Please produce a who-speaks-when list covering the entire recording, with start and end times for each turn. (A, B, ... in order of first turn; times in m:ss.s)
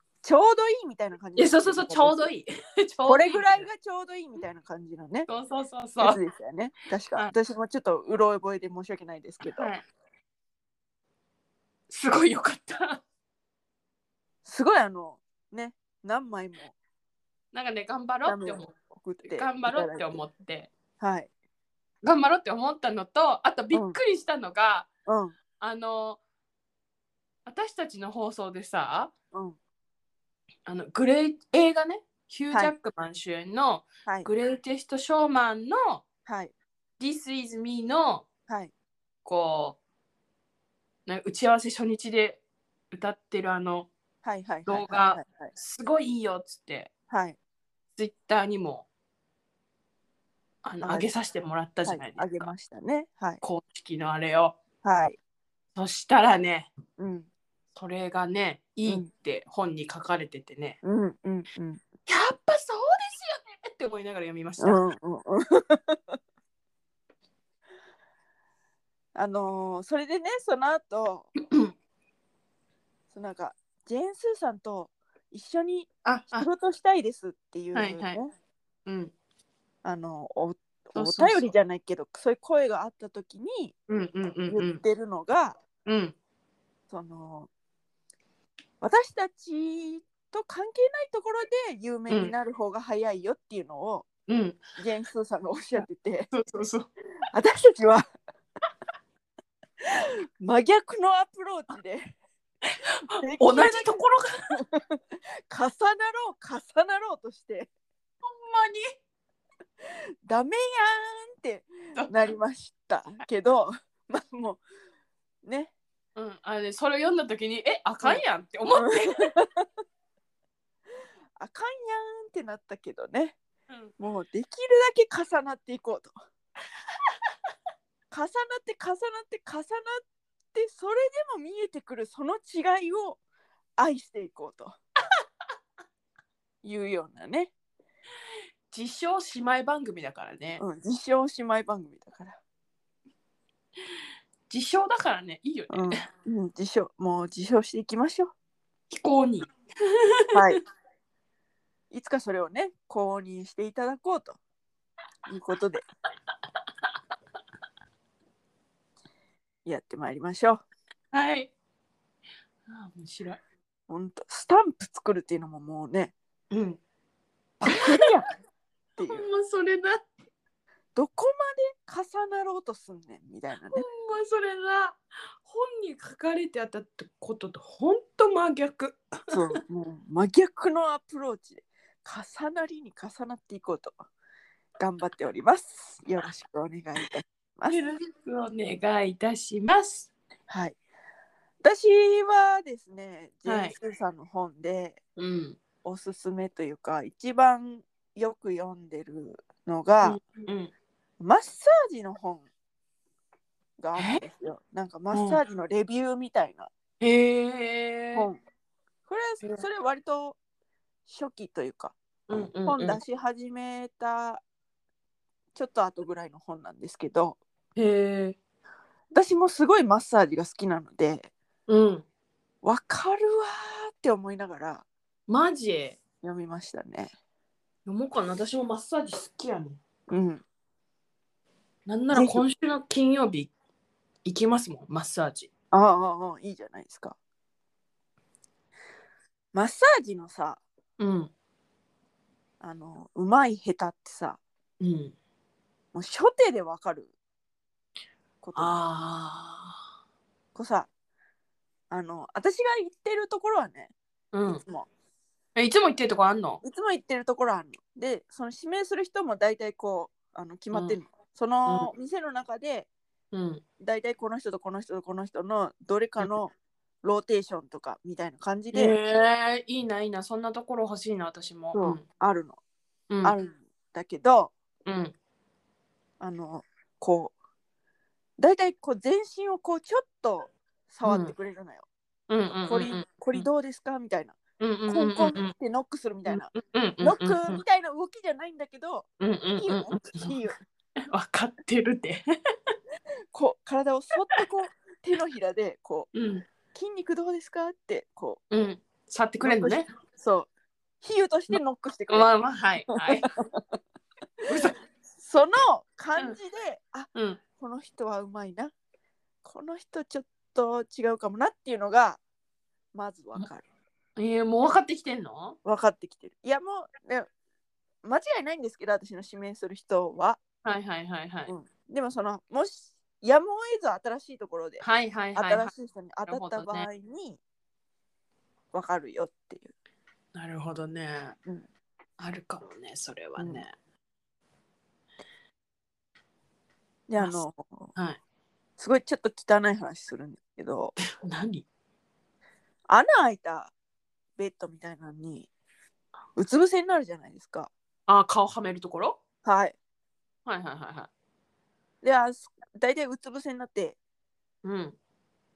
0:00.2-0:02.3 A
0:01.4-0:03.7 B
0:03.0-0:05.3 A
0:05.3-0:06.2 B
0:06.0-0:09.7 A
0:09.4-0:09.8 B
0:11.9-0:13.0 B
0:14.4-0:16.7 A
0:17.5-0:18.7 B
0:18.2-0:20.2 A
0:19.2-0:20.7 B
0:21.0-0:21.3 A
0:22.0-0:24.9 B
0:23.7-0:24.0 A
0:25.0-0:25.4 A
0:25.6-0:26.2 B
0:27.5-0:29.1 B
0:29.3-0:29.6 A
0:30.6-0:36.0 B
0:36.2-0:36.5 A
0:37.0-0:38.2 B
0:39.2-0:39.8 B
0:41.1-0:43.9 B
0:44.2-0:45.5 A
0:44.6-0:46.9 B
0:47.1-0:47.4 A
0:48.0-0:48.9 B
0:50.6-0:52.5 B
0:50.8-0:51.1 A
0:51.9-0:53.4 A
0:53.4-0:54.6 B
0:54.8-0:55.2 A
0:55.8-0:56.7 B
0:57.0-0:57.3 A
0:57.8-1:00.8 B
1:00.8-1:01.8 A
1:02.1-1:04.8 B
1:04.6-1:06.2 A
1:09.1-1:11.3 A
1:13.1-1:18.3 A
1:16.0-1:16.5 B
1:17.7-1:18.2 B
1:18.9-1:19.1 B
1:19.8-1:23.7 A
1:20.9-1:21.5 B
1:23.9-1:24.8 B
1:24.5-1:25.6 A
1:25.9-1:26.1 B
1:26.9-1:27.5 A
1:28.8-1:34.0 A
1:34.3-1:34.6 B
1:34.8-1:36.3 A
1:35.8-1:36.9 B
1:37.3-1:38.0 A
1:39.8-1:42.1 A
1:42.6-1:44.6 B
1:43.2-1:44.0 A
1:44.5-1:47.7 A
1:48.2-1:48.9 B
1:50.2-1:54.6 A
1:55.4-1:55.7 A
1:56.2-1:59.3 B
1:58.8-1:59.7 A
2:01.4-2:03.4 A
2:04.0-2:06.1 A
2:08.1-2:13.2 A
2:13.8-2:14.8 A
2:16.6-2:17.5 A
2:18.7-2:20.6 B
2:20.6-2:22.4 A
2:24.5-2:26.0 B
2:25.7-2:28.3 A
2:28.9-2:30.6 B
2:30.3-2:30.6 A
2:31.9-2:34.4 A
2:35.3-2:35.8 A
2:39.6-2:40.6 A
2:41.1-2:41.5 B
2:42.7-2:43.4 B
2:43.9-2:46.1 A
2:46.5-2:46.8 B
2:47.6-2:48.2 A
2:47.6-2:48.1 B
2:49.0-2:49.2 A
2:49.1-2:50.1 B
2:51.0-2:53.8 A
2:53.7-2:59.0 B
2:59.3-3:04.0 A
3:04.8-3:07.8 A
3:07.7-3:10.1 B
3:10.5-3:10.8 A
3:11.6-3:15.0 A
3:13.4-3:13.8 B
3:15.2-3:15.6 B
3:15.8-3:20.2 A
3:20.0-3:20.7 B
3:21.2-3:22.5 A
3:23.8-3:26.7 A
3:24.0-3:24.2 B
3:25.1-3:25.4 B
3:27.0-3:28.3 B
3:29.1-3:30.4 A
3:31.1-3:32.0 A
3:32.3-3:33.0 B
3:32.6-3:34.4 A
3:35.5-3:37.4 A
3:37.8-3:38.4 B
3:39.1-3:41.3 A
3:41.7-3:42.0 B
3:42.6-3:44.8 A
3:45.3-3:46.0 B
3:46.2-3:47.1 A
3:47.8-3:49.8 B
3:50.1-3:50.4 A
3:51.9-3:53.5 B
3:52.1-3:52.4 A
3:54.2-3:55.5 B
3:55.7-3:57.2 A
3:59.5-4:00.6 A
4:01.0-4:01.3 B
4:02.6-4:04.4 A
4:04.8-4:05.2 B
4:05.9-4:07.1 A
4:08.4-4:08.8 A
4:08.6-4:09.8 B
4:10.5-4:10.9 A
4:11.9-4:13.9 A
4:14.3-4:14.6 B
4:14.5-4:14.9 A
4:15.5-4:16.6 B
4:16.6-4:22.9 A
4:20.7-4:21.0 B
4:23.3-4:23.6 B
4:23.8-4:29.0 A
4:28.7-4:32.0 B
4:31.7-4:32.6 A
4:33.1-4:33.4 B
4:33.2-4:34.5 A
4:34.8-4:35.1 B
4:36.2-4:37.3 A
4:38.4-4:41.8 A
4:41.0-4:41.3 B
4:42.3-4:43.5 B
4:42.7-4:44.4 A
4:44.6-4:45.5 B
4:44.9-4:46.5 A
4:46.3-4:47.6 B
4:47.0-4:50.6 A
4:49.2-4:50.4 B
4:51.1-4:52.2 B
4:53.3-4:56.1 A
4:56.1-4:56.5 B
4:56.7-4:58.4 A
4:58.5-4:59.9 B
4:59.4-5:00.5 A
5:01.0-5:02.3 A
5:02.1-5:03.3 B
5:03.0-5:03.8 A
5:04.4-5:04.8 B
5:05.2-5:08.7 A
5:07.1-5:07.4 B
5:09.4-5:12.2 A
5:12.9-5:13.6 A
5:14.2-5:15.6 B
5:15.6-5:17.3 A
5:18.0-5:20.4 A
5:20.6-5:21.5 B
5:21.5-5:24.8 A
5:24.8-5:25.7 B
5:25.3-5:27.4 A
5:26.3-5:26.9 B
5:28.7-5:29.7 A
5:30.3-5:31.4 B
5:32.2-5:33.7 B
5:33.4-5:33.6 A
5:37.1-5:37.9 A
5:38.8-5:41.0 A
5:41.1-5:41.7 B
5:42.9-5:43.7 A
5:44.4-5:45.5 A
5:46.4-5:47.7 A
5:48.1-5:49.2 B
5:49.4-5:49.8 A
5:50.5-5:51.1 B
5:52.0-5:54.0 A
5:54.6-5:55.0 B